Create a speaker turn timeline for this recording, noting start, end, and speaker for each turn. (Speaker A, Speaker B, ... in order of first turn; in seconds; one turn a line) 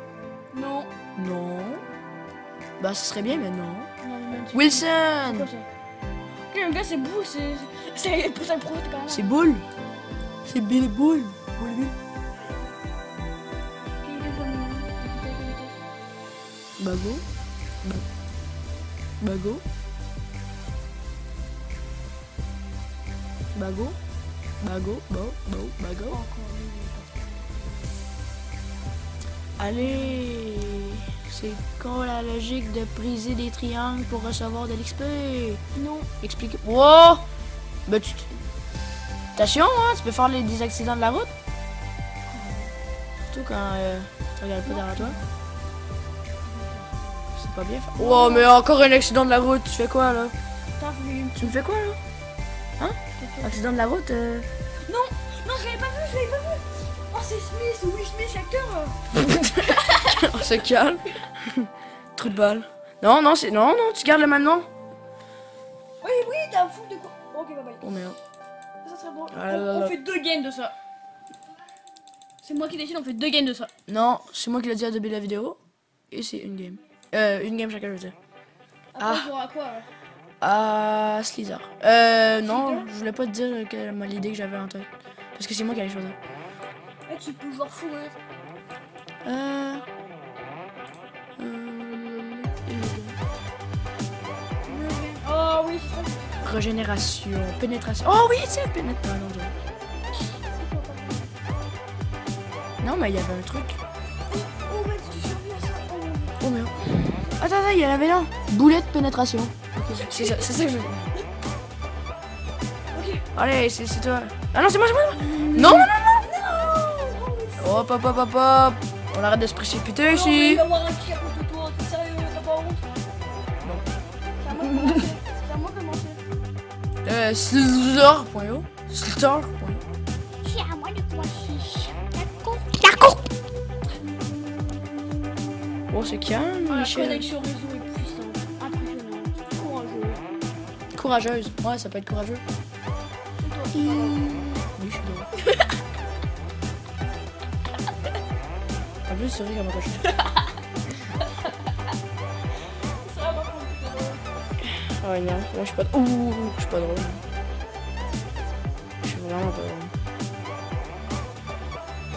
Speaker A: 0.5-0.9
Speaker B: 1.1-1.8
Speaker B: 2.8-3.9
Speaker A: 4.0-5.7
Speaker B: 4.5-5.5
Speaker A: 6.5-9.3
Speaker B: 9.1-9.7
Speaker B: 10.4-11.9
Speaker A: 14.0-15.8
Speaker B: 16.8-17.2
Speaker B: 19.2-19.6
Speaker B: 23.5-24.0
Speaker B: 24.6-26.2
Speaker A: 26.1-27.6
Speaker B: 29.6-35.6
Speaker A: 29.7-30.2
Speaker A: 35.7-36.1
Speaker B: 36.2-37.2
Speaker B: 37.9-38.4
Speaker B: 39.3-41.3
Speaker A: 42.3-42.7
Speaker B: 43.3-45.2
Speaker A: 44.6-45.2
Speaker A: 46.4-47.1
Speaker B: 47.4-50.3
Speaker A: 48.0-48.5
Speaker A: 50.8-51.6
Speaker B: 51.4-52.0
Speaker B: 52.8-54.5
Speaker A: 53.2-53.5
Speaker A: 54.8-59.0
Speaker B: 59.1-64.7
Speaker A: 59.6-60.3
Speaker A: 66.0-67.9
Speaker B: 67.8-68.2
Speaker A: 68.8-70.7
Speaker B: 69.3-70.0
Speaker A: 72.4-73.7
Speaker B: 73.9-75.6
Speaker B: 76.1-78.1
Speaker A: 78.9-79.9
Speaker B: 79.0-79.3
Speaker B: 80.4-86.2
Speaker A: 82.3-82.9
Speaker A: 87.1-88.2
Speaker B: 89.2-89.8
Speaker B: 91.4-93.2
Speaker A: 94.6-96.5
Speaker B: 96.4-99.5
Speaker A: 100.1-101.3
Speaker B: 102.8-103.8
Speaker A: 104.3-106.4
Speaker B: 106.4-111.1
Speaker A: 109.9-110.5
Speaker A: 112.9-113.2
Speaker B: 113.3-115.9
Speaker A: 115.1-118.0
Speaker B: 117.6-120.7
Speaker A: 120.0-122.8
Speaker A: 124.4-126.2
Speaker B: 124.5-125.1
Speaker B: 127.0-129.8
Speaker A: 130.4-132.8
Speaker B: 132.7-133.2
Speaker B: 135.9-137.2
Speaker A: 136.7-140.2
Speaker B: 140.9-142.4
Speaker A: 143.4-144.2
Speaker B: 143.7-145.3
Speaker B: 149.1-150.1
Speaker A: 153.0-154.3
Speaker B: 154.6-157.2
Speaker B: 159.0-159.9